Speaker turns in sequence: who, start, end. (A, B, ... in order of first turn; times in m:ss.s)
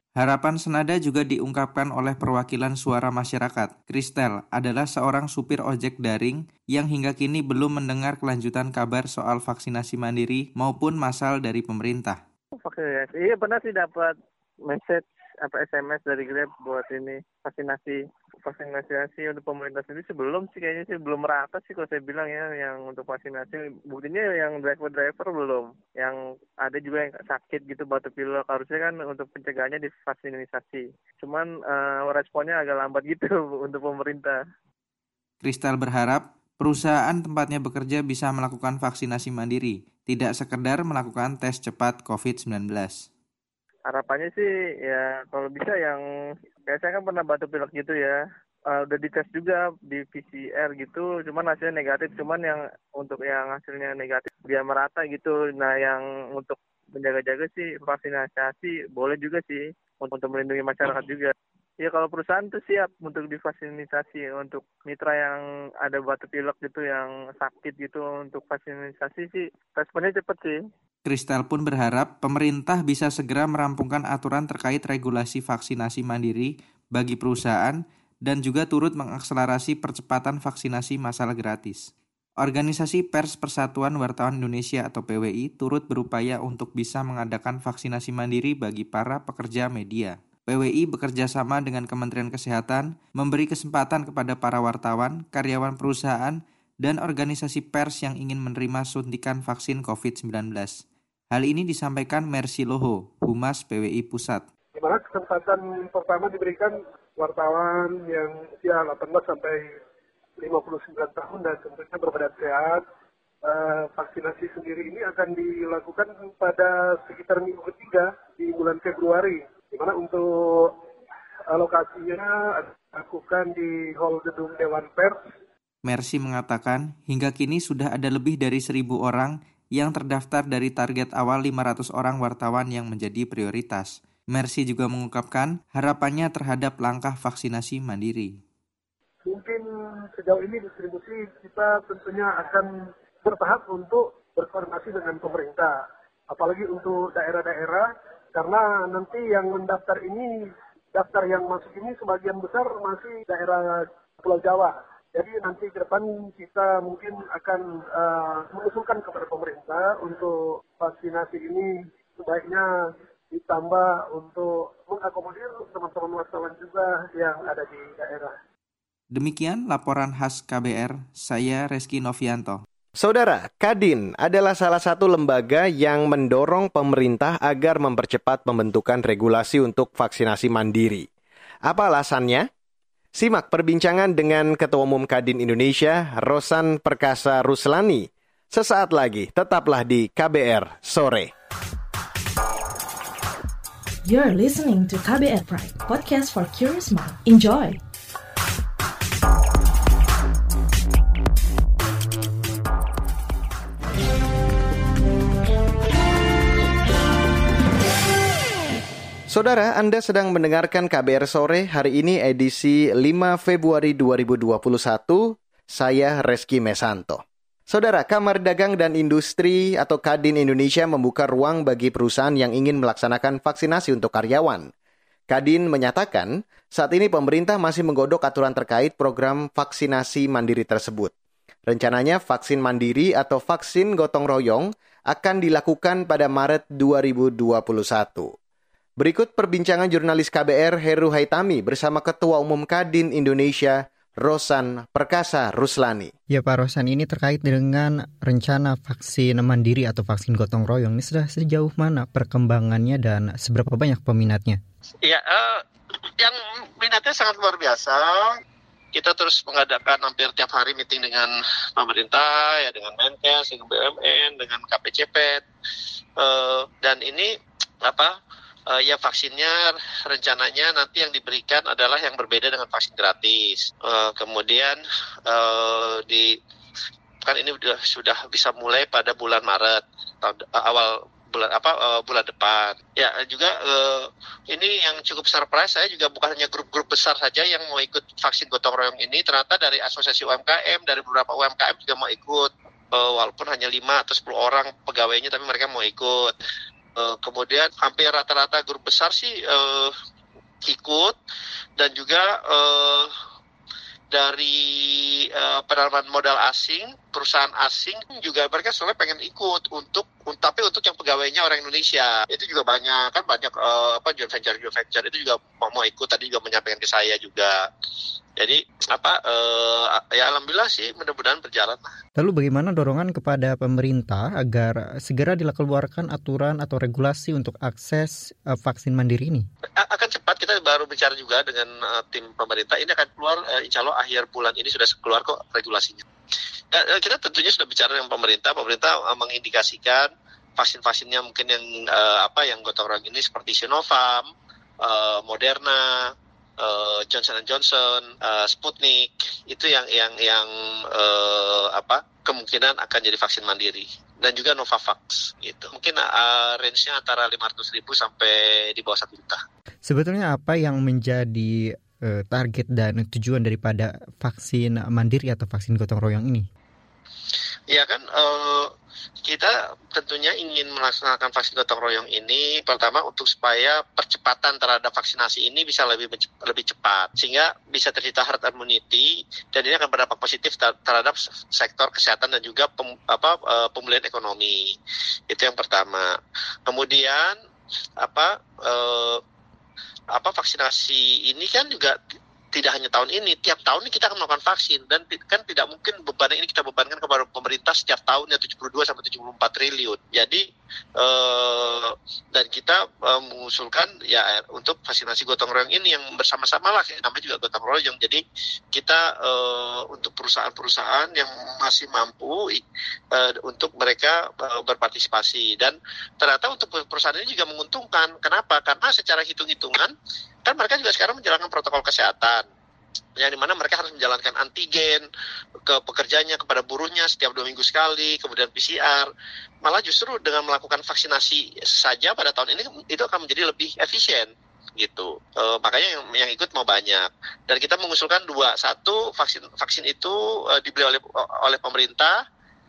0:00.2-0:12.2 A
0:12.6-0:14.1 B
0:14.7-0:34.4 B
0:35.4-0:43.0 A
0:43.9-0:46.0 B
0:46.7-0:48.2 B
0:48.7-1:10.6 B
1:11.0-1:21.9 A
1:22.4-1:44.4 A
1:44.7-1:49.8 C
1:50.4-1:52.8 C
1:53.4-2:00.8 C
2:01.5-2:05.2 C
2:05.8-2:18.4 A
2:19.2-2:48.3 C
2:49.1-2:52.6 A
2:53.0-3:01.1 D
3:01.6-3:02.5 D
3:03.2-3:11.3 D
3:14.0-3:17.8 E
3:29.3-3:44.7 D
3:45.3-3:51.1 D
3:51.7-3:58.3 D
3:59.0-4:06.1 D
4:06.3-4:14.6 F
4:15.0-4:15.6 G
4:16.2-4:18.4 G
4:18.9-4:25.4 G
4:26.2-4:28.2 G
4:28.7-4:36.4 G
4:37.2-4:56.4 G
4:57.0-4:59.9 G
5:00.6-5:01.2 G
5:01.8-5:03.1 G
5:04.1-5:17.7 G
5:18.4-5:21.9 G
5:22.2-5:29.4 F
5:29.8-5:36.0 G
5:36.7-5:44.3 G
5:44.8-5:59.4 G
5:59.8-6:06.4 F
6:07.7-6:08.7 G
6:09.2-6:24.8 G
6:25.3-6:27.4 G
6:28.0-6:29.2 G
6:30.1-6:32.0 G
6:32.5-6:40.4 G
6:41.0-6:48.2 G
6:48.7-6:59.9 G
7:00.4-7:02.4 G
7:03.2-7:05.1 G
7:05.6-7:09.1 G
7:09.6-7:22.2 G